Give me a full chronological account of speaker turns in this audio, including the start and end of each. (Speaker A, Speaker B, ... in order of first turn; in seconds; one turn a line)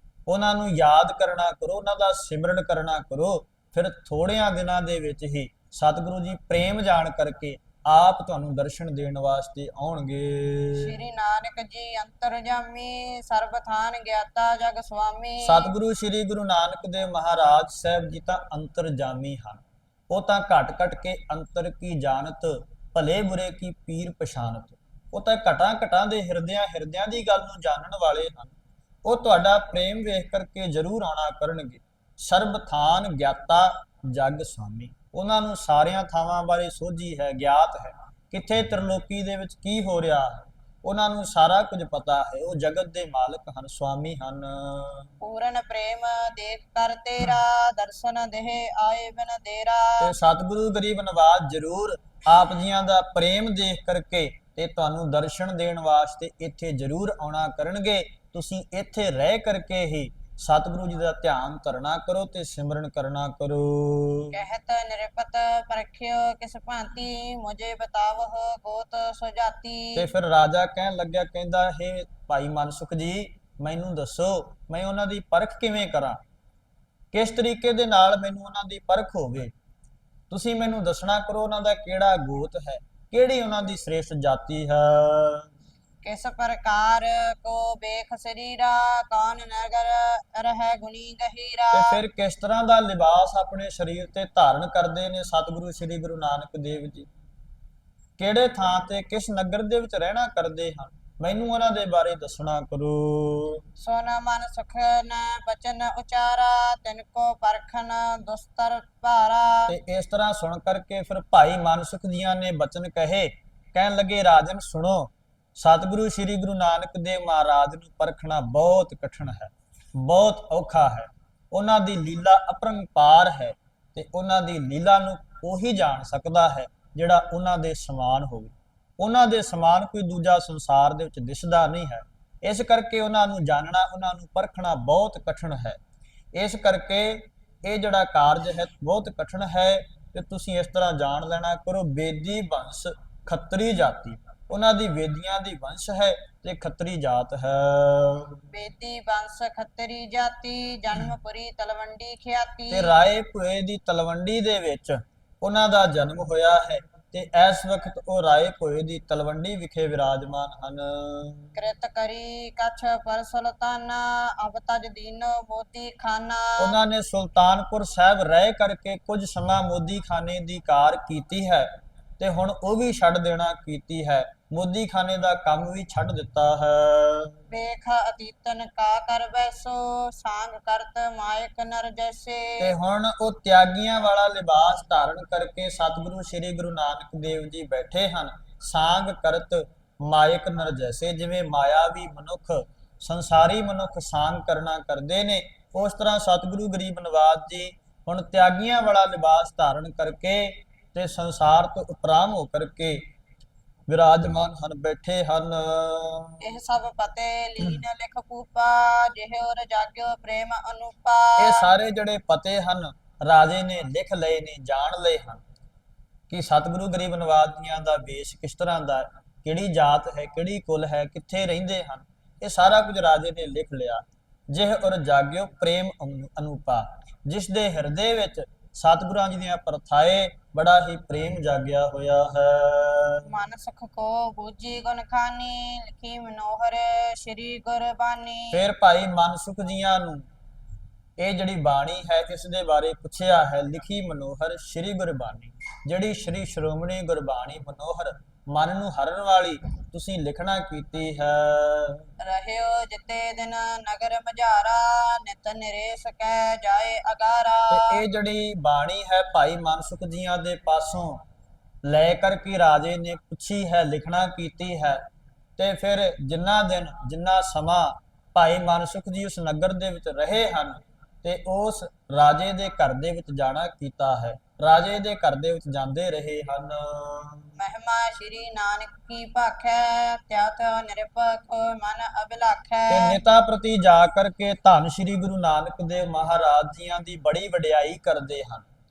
Speaker A: 0.3-10.9
Speaker B: 10.7-15.7
Speaker A: 15.4-45.1
Speaker B: 45.2-50.1
Speaker A: 50.0-64.4
Speaker B: 64.3-70.1
Speaker A: 70.0-76.2
Speaker A: 77.1-79.5
Speaker A: 80.3-85.5
Speaker B: 86.0-92.0
Speaker A: 91.7-97.1
Speaker A: 98.2-103.6
Speaker B: 103.8-109.7
Speaker A: 109.7-135.8
Speaker A: 136.3-148.4
Speaker B: 148.5-152.9
Speaker A: 152.7-161.5
Speaker B: 161.5-166.8
Speaker A: 166.6-177.3
Speaker B: 177.5-182.7
Speaker A: 182.6-203.1
Speaker A: 203.9-206.4
Speaker B: 206.4-211.7
Speaker A: 211.4-215.4
Speaker A: 216.3-233.3
Speaker B: 233.3-238.6
Speaker A: 238.5-240.3
Speaker A: 241.2-252.0
Speaker B: 252.2-258.0
Speaker A: 257.7-261.2
Speaker A: 261.8-265.0
Speaker A: 265.6-277.5
Speaker B: 277.6-283.2
Speaker A: 282.9-288.7